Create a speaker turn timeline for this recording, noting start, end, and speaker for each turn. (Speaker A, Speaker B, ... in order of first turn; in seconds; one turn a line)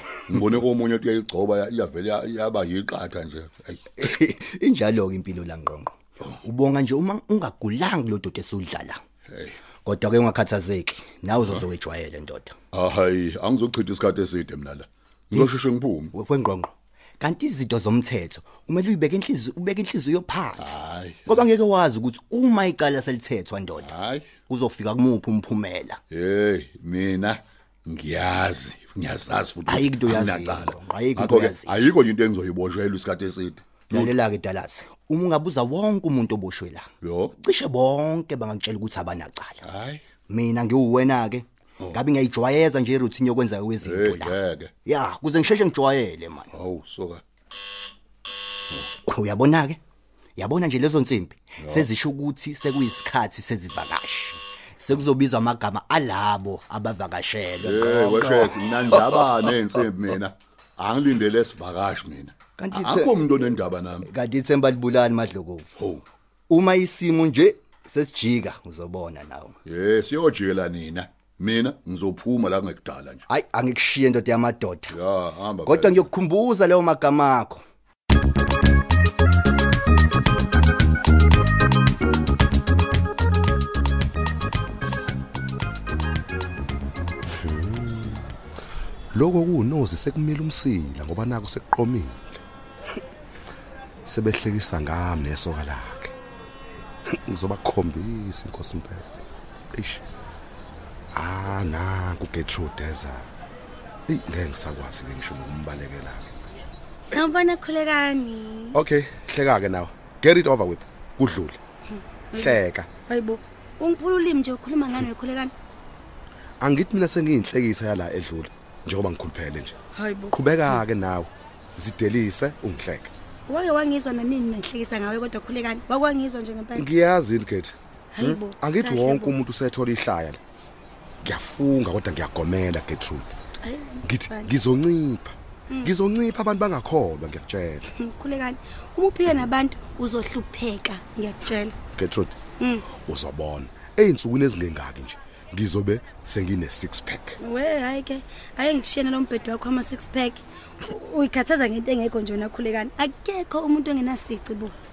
Speaker A: 0.3-3.9
Speaker B: 4.0-9.0
Speaker A: 9.3-9.6
Speaker B: 9.8-12.6
Speaker A: 12.7-16.1
Speaker B: 15.3-15.6
Speaker B: 16.1-20.8
Speaker A: 20.6-21.5
Speaker B: 21.3-23.9
Speaker A: 23.8-24.4
Speaker B: 24.5-26.0
Speaker A: 26.1-34.2
Speaker B: 29.7-31.8
Speaker B: 33.9-36.9
Speaker A: 37.0-37.4
Speaker B: 37.4-39.6
Speaker A: 39.7-40.1
Speaker B: 40.3-44.4
Speaker A: 41.8-42.1
Speaker A: 43.8-44.7
Speaker B: 44.9-46.5
Speaker A: 46.5-47.2
Speaker B: 49.0-49.8
Speaker B: 50.4-59.6
Speaker A: 51.6-51.9
Speaker A: 57.6-64.1
Speaker B: 62.6-65.7
Speaker A: 65.8-66.0
Speaker B: 66.5-69.6
Speaker A: 69.7-73.2
Speaker B: 73.3-75.0
Speaker A: 74.9-76.1
Speaker B: 75.7-77.6
Speaker C: 87.4-88.2
Speaker C: 89.1-92.4
Speaker C: 94.0-96.2
Speaker C: 97.2-99.1
Speaker C: 99.7-100.0
Speaker C: 101.1-103.3
Speaker C: 104.1-106.5
Speaker D: 107.0-108.8
Speaker C: 108.7-111.6
Speaker D: 111.9-115.5
Speaker C: 112.4-112.9
Speaker C: 116.6-119.8
Speaker D: 120.0-120.8
Speaker C: 120.3-123.1
Speaker D: 123.5-126.9
Speaker C: 126.8-130.4
Speaker D: 128.1-129.4
Speaker C: 131.2-133.3
Speaker D: 133.6-134.5
Speaker C: 134.0-137.9
Speaker D: 138.0-141.8
Speaker C: 141.9-142.4
Speaker D: 142.6-142.9
Speaker C: 142.9-147.4
Speaker D: 147.4-154.8